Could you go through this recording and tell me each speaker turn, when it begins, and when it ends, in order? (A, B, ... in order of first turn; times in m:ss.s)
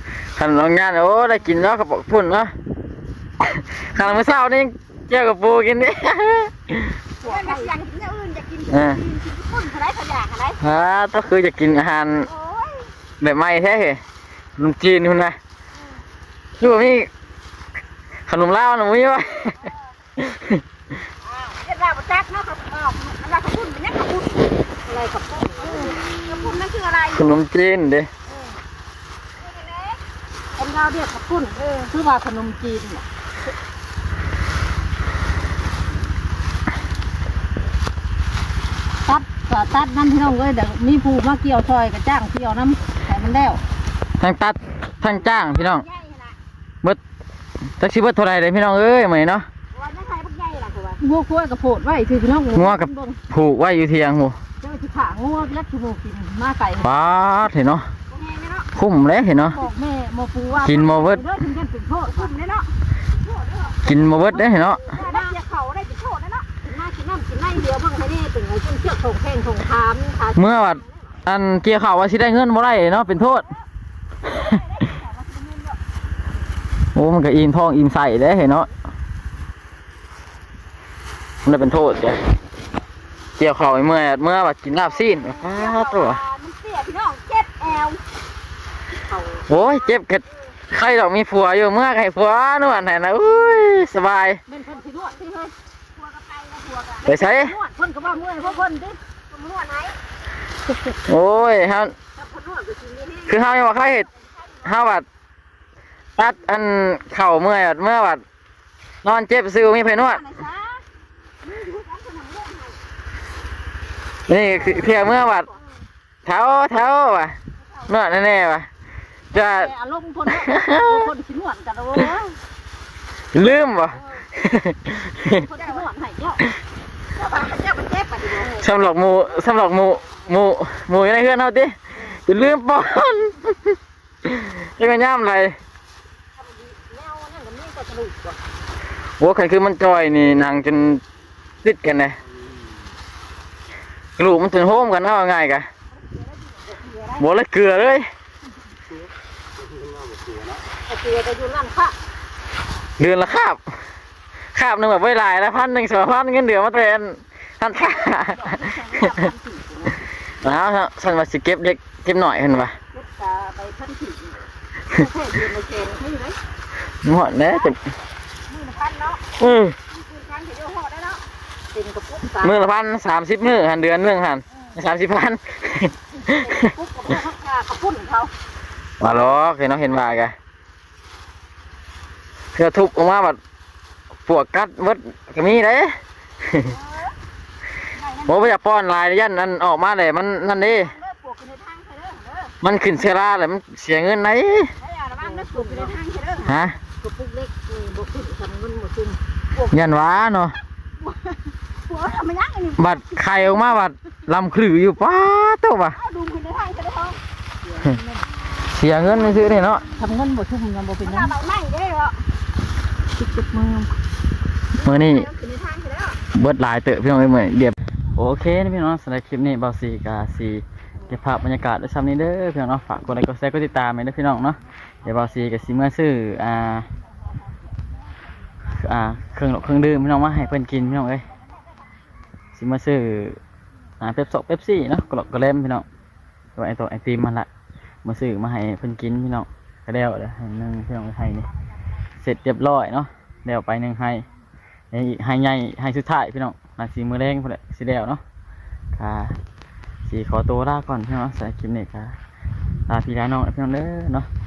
0:00.4-0:02.5 A
0:03.4-0:07.0 A
0:07.2-0:07.7 B
0:07.2-0:10.6 C
0:08.7-0:09.0 A
0:10.6-0:12.3 A
0:12.3-0:12.9 C
0:13.2-0:14.0 A
0:14.6-0:15.4 A
0:16.6-0:17.1 A
0:18.3-0:19.7 A
0:20.2-0:20.6 A
0:21.2-0:24.5 C
0:24.8-0:26.0 B
0:25.6-0:27.3 C
0:27.1-0:28.1 A
0:29.4-0:30.0 C
0:30.6-0:33.0 B
0:39.0-0:43.6 B
0:44.2-0:45.8 A
0:45.0-0:46.4 C
0:47.8-0:49.5 A
0:49.7-0:51.0 C
0:51.0-0:53.2 B
0:52.5-0:54.4 A
0:54.6-0:56.9 B
0:56.8-0:57.8 A
0:58.1-0:58.7 C
0:58.7-0:59.6 A
0:59.4-1:02.3 B
1:00.6-1:01.2 A
1:02.1-1:02.7 C
1:03.2-1:03.9 C
1:03.8-1:04.9 A
1:04.1-1:05.4 B
1:04.8-1:06.6 C
1:06.6-1:10.7 B
1:10.4-1:13.4 A
1:10.7-1:11.1 C
1:14.6-1:15.8 C
1:16.9-1:18.7 A
1:21.4-1:22.2 A
1:23.4-1:26.2 A
1:25.2-1:28.0 C
1:29.1-1:29.4 C
1:29.5-1:34.4 A
1:34.5-1:35.2 B
1:34.7-1:37.1 C
1:37.0-1:39.0 B
1:37.0-1:37.5 A
1:38.1-1:38.6 C
1:39.3-1:40.0 C
1:41.0-1:41.9 A
1:42.2-1:43.4 C
1:43.3-1:44.1 A
1:44.6-1:45.0 A
1:46.2-1:48.2 A
1:49.0-1:50.2 A
1:50.2-1:50.8 B
1:51.4-1:52.8 C
1:54.3-1:55.5 A
1:54.5-1:55.2 B
1:56.2-1:57.3 A
1:57.9-1:58.7 A
1:59.3-2:02.4 B
1:59.3-1:59.7 A
2:00.3-2:01.1 A
2:03.3-2:05.4 A
2:05.3-2:06.4 B
2:07.2-2:08.6 C
2:08.4-2:13.7 A
2:14.2-2:15.6 A
2:16.7-2:18.4 B
2:19.2-2:21.0 A
2:21.6-2:22.2 A
2:24.2-2:25.6 A
2:27.2-2:28.0 A
2:30.9-2:31.9 B
2:33.0-2:33.6 A
2:34.5-2:39.3 A
2:37.8-2:40.0 B
2:40.4-2:42.7 A
2:42.9-2:44.4 B
2:44.9-2:46.4 B
2:47.0-2:47.8 A
2:48.5-2:49.1 B
2:49.4-2:49.7 A
2:49.9-2:51.2 C
2:51.7-2:52.6 B
2:52.4-2:56.6 A
2:56.4-2:58.3 B
2:59.0-3:00.3 A
3:02.5-3:03.4 A
3:04.2-3:06.7 A
3:06.7-3:07.0 B
3:08.0-3:08.5 B
3:08.2-3:10.9 A
3:10.6-3:12.5 B
3:12.6-3:14.7 A
3:14.8-3:16.6 C
3:15.2-3:15.9 B
3:16.4-3:16.8 A
3:17.0-3:19.2 B
3:19.7-3:20.6 A
3:21.8-3:23.0 C
3:22.8-3:26.0 A
3:25.9-3:27.2 C
3:27.7-3:28.2 B
3:28.6-3:29.8 A
3:30.0-3:31.3 B
3:31.0-3:32.2 C
3:33.2-3:33.9 B
3:34.8-3:36.2 C
3:34.8-3:35.3 A
3:36.3-3:46.9 A
3:48.7-3:51.2 A
3:52.5-3:53.4 A
3:54.0-3:55.8 A
3:56.6-3:57.5 A
3:58.0-4:01.5 A
4:02.2-4:04.2 A
4:04.9-4:08.2 A
4:08.9-4:09.4 A
4:10.0-4:12.2 A
4:12.9-4:14.3 A